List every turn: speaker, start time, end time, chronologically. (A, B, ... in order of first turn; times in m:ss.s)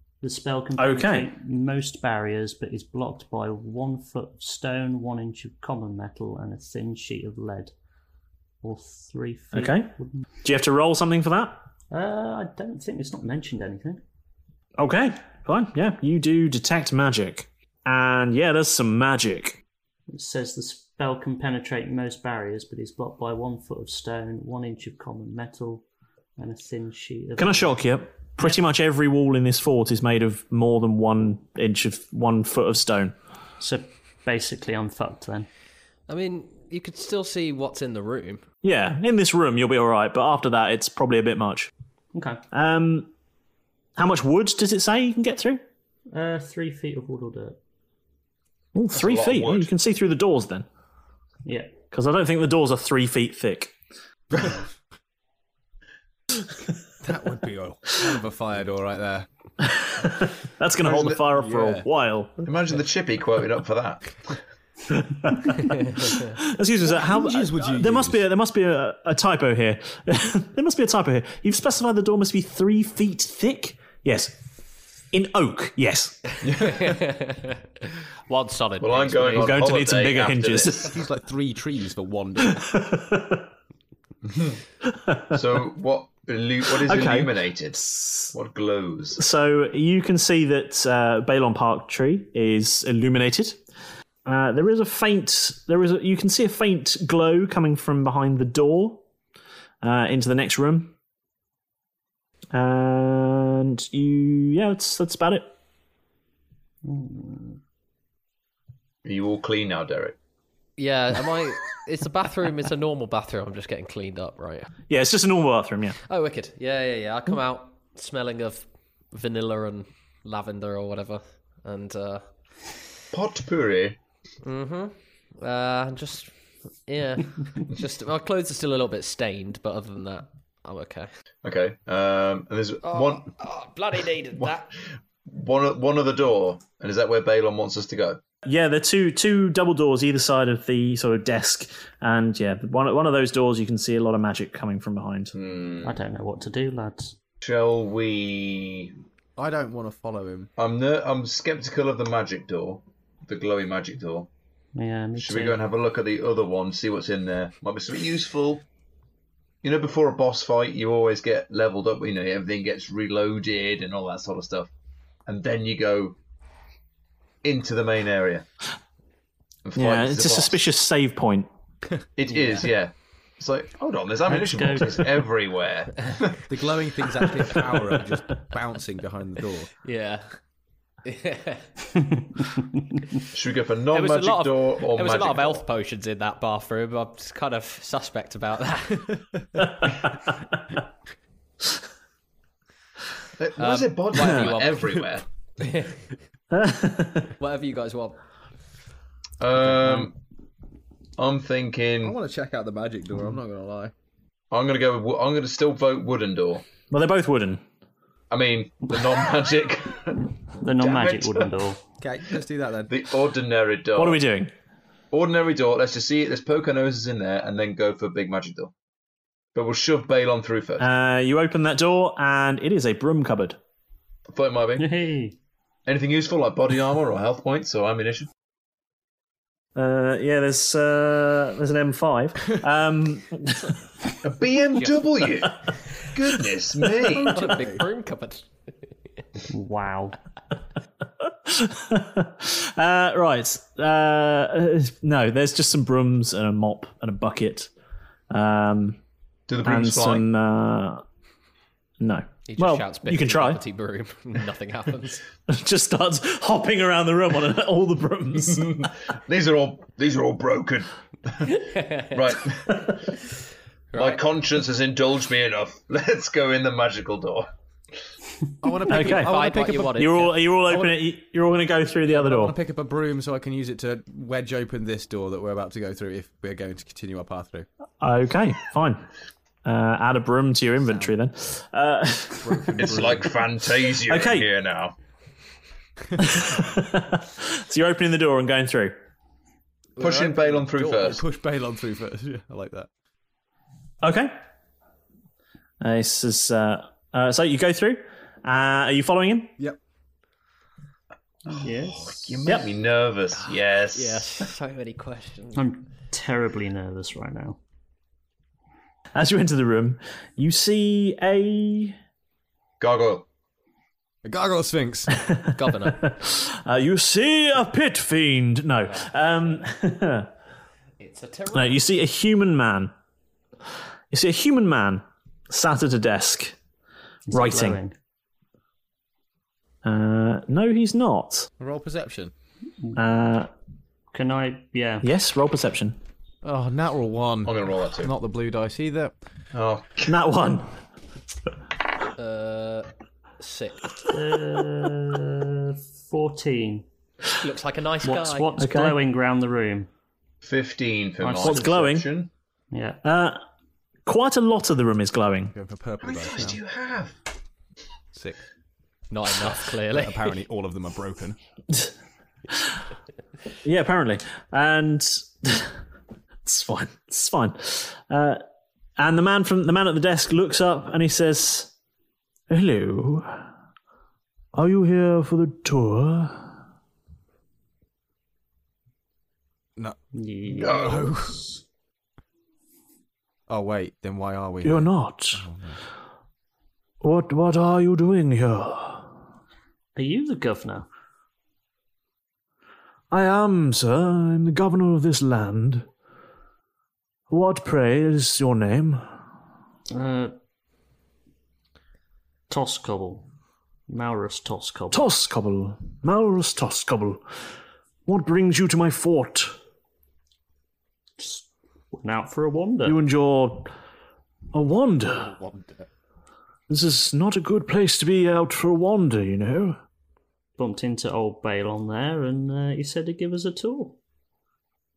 0:00.2-0:07.7 A
0:00.8-0:01.3 B
0:08.6-0:10.2 A
0:09.5-0:11.6 B
0:11.9-0:14.0 A
0:14.8-0:19.6 B
0:20.1-0:25.8 A
0:26.4-0:27.8 A
0:27.4-0:33.1 B
0:33.6-0:35.5 A
0:36.1-0:38.4 C
0:38.6-0:41.7 B
0:42.1-0:42.4 A
0:42.5-0:43.1 B
0:44.0-0:45.6 B
0:46.1-0:47.6 A
0:48.7-0:50.7 B
0:48.9-0:49.7 D
0:51.4-0:51.8 A
0:51.9-0:53.7 B
0:54.3-0:54.6 E
0:57.0-0:59.2 E
0:59.6-1:02.3 B
1:00.8-1:01.2 D
1:01.3-1:01.8 E
1:02.4-1:04.2 D
1:04.9-1:14.4 B
1:06.8-1:08.2 E
1:15.1-1:16.2 B
1:16.4-1:16.9 D
1:16.6-1:19.6 C
1:18.8-1:20.9 D
1:19.3-1:20.9 B
1:20.8-1:22.7 E
1:22.4-1:23.5 B
1:24.3-1:24.6 D
1:24.8-1:25.4 B
1:25.3-1:29.2 D
1:26.7-1:28.3 B
1:29.2-1:33.6 B
1:34.2-1:39.0 B
1:39.8-1:40.9 B
1:42.5-1:45.5 B
1:46.8-1:47.6 A
1:49.0-1:50.1 D
1:50.8-1:54.7 C
1:54.9-1:56.0 B
1:56.1-2:02.3 C
2:03.1-2:04.0 D
2:04.4-2:06.3 C
2:06.8-2:11.1 C
2:11.4-2:13.3 D
2:12.8-2:14.7 C
2:15.2-2:18.2 D
2:18.4-2:25.3 B
2:25.3-2:26.0 D
2:25.8-2:27.2 A
2:27.4-2:28.9 D
2:29.4-2:30.5 E
2:30.6-2:34.3 D
2:34.7-2:35.6 A
2:35.2-2:38.6 D
2:39.6-2:44.7 D
2:45.3-2:46.2 D
2:47.4-2:48.4 D
2:49.6-2:50.6 D
2:49.8-2:51.5 B
2:52.2-2:56.4 D
2:52.3-2:52.6 C
2:54.3-2:55.2 A
2:56.5-2:59.7 E
2:59.8-3:00.3 C
3:01.0-3:01.7 C
3:02.1-3:03.0 A
3:03.3-3:05.6 D
3:03.9-3:09.2 C
3:13.4-3:15.2 D
3:13.6-3:15.0 C
3:14.1-3:14.5 B
3:15.6-3:16.0 C
3:16.5-3:17.3 B
3:17.4-3:18.2 C
3:19.4-3:20.2 D
3:21.2-3:22.2 D
3:22.0-3:23.9 E
3:24.5-3:26.6 D
3:26.9-3:27.6 B
3:28.3-3:31.5 D
3:30.6-3:31.8 A
3:32.0-3:32.9 E
3:32.9-3:34.2 D
3:34.0-3:34.5 B
3:35.1-3:38.7 D
3:39.5-3:40.8 D
3:40.8-3:43.6 B
3:44.3-3:44.9 D
3:44.8-3:45.4 A
3:45.8-3:48.3 D
3:49.7-3:53.7 B
3:54.2-3:57.4 D
3:57.1-3:58.5 C
3:57.4-3:57.8 E
3:59.5-4:00.2 A
4:01.4-4:07.7 B
4:08.3-4:09.0 B
4:09.5-4:10.3 D
4:09.6-4:11.0 B
4:12.0-4:13.6 B
4:12.5-4:15.2 C
4:15.5-4:18.9 B
4:18.4-4:21.5 D
4:21.4-4:22.2 C
4:22.1-4:23.1 D
4:23.9-4:24.2 C
4:23.9-4:27.5 D
4:28.6-4:30.0 E
4:28.9-4:32.6 B
4:28.9-4:30.4 C
4:30.7-4:31.0 E
4:32.1-4:37.7 E
4:38.0-4:39.1 B
4:39.6-4:42.8 B
4:42.4-4:43.3 E
4:42.8-4:44.9 D
4:43.8-4:44.5 B
4:46.2-4:48.9 B
4:50.0-4:51.2 D
4:50.0-4:51.0 C
4:50.0-4:52.9 E
4:54.0-4:54.3 B
4:55.8-4:59.5 B
5:01.5-5:02.4 A
5:01.5-5:04.3 D
5:03.9-5:05.7 C
5:05.5-5:07.6 A
5:09.1-5:12.0 B
5:12.8-5:13.2 D
5:14.2-5:15.1 E
5:15.3-5:20.3 B
5:15.5-5:16.1 C
5:18.9-5:19.6 C
5:21.0-5:21.8 C
5:21.5-5:22.9 B
5:24.1-5:26.6 B
5:27.3-5:27.9 A
5:27.3-5:27.8 B
5:29.8-5:31.5 B
5:31.6-5:32.3 E
5:33.0-5:33.5 B
5:34.1-5:35.1 A
5:35.0-5:36.0 B
5:36.4-5:39.1 E
5:37.4-5:38.1 D
5:39.5-5:40.2 D
5:40.0-5:40.7 B
5:42.2-5:42.9 C
5:43.4-5:43.9 C
5:44.1-5:46.8 A
5:47.4-5:48.5 C
5:48.0-5:49.9 A
5:48.6-5:49.0 B
5:50.4-5:52.3 D
5:51.2-5:51.9 A
5:51.4-5:52.1 B
5:52.7-5:53.0 A
5:53.0-5:53.4 B
5:54.0-5:55.5 B
5:55.5-5:56.6 E
5:56.0-5:57.1 D
5:59.1-6:00.2 C
5:59.4-6:01.4 E
6:03.6-6:05.7 B
6:06.4-6:08.4 B
6:09.0-6:11.7 B
6:12.5-6:13.4 B
6:14.5-6:16.5 B
6:20.1-6:21.6 A
6:20.6-6:21.1 D
6:20.6-6:21.4 E
6:23.5-6:25.8 E
6:24.6-6:25.4 B
6:27.0-6:29.1 B
6:29.9-6:30.9 A
6:33.1-6:35.9 B
6:37.3-6:39.0 B
6:39.9-6:40.3 A
6:42.5-6:43.3 A
6:43.9-6:45.1 A
6:44.9-6:47.2 B
6:48.0-6:49.5 B
6:51.2-6:53.0 A
6:52.8-6:53.7 B
6:54.5-6:55.3 B
6:55.2-6:55.8 E
6:56.7-6:59.8 B
7:00.6-7:04.0 A